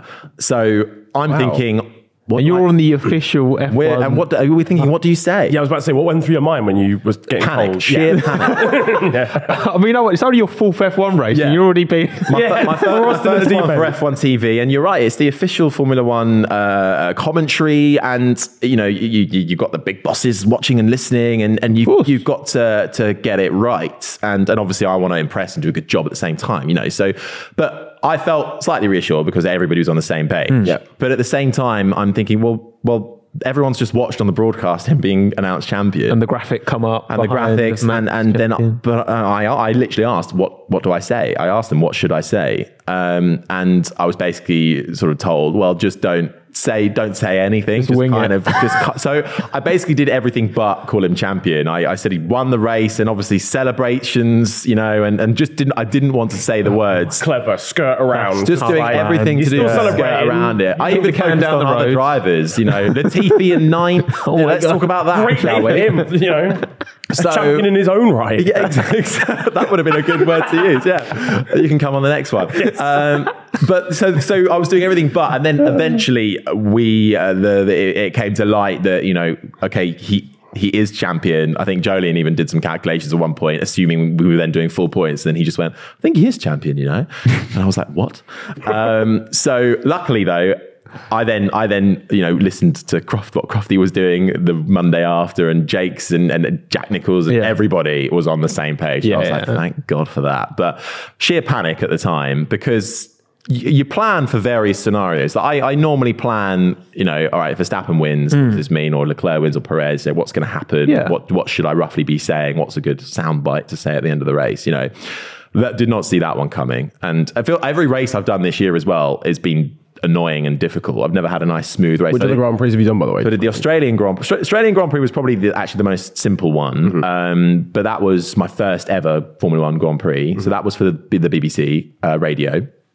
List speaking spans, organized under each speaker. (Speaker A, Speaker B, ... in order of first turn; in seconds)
Speaker A: 0.4-2.7, 3.7-5.6, 7.4-8.6, 11.3-11.6, 12.2-36.2, 37.1-57.3, 58.4-66.1, 67.1-67.7, 68.4-122.4, 123.2-132.7
Speaker B: 1.3-1.6, 5.5-9.5, 12.3-14.0, 57.2-60.6, 64.4-68.8, 72.6-73.2, 122.1-123.6
Speaker C: 2.4-4.3, 7.9-8.8, 9.4-12.6, 21.9-22.1, 30.5-30.7, 36.1-38.8, 47.8-48.8, 58.1-60.1, 60.8-63.5, 64.2-64.7, 97.3-97.6, 99.0-99.6, 110.8-111.2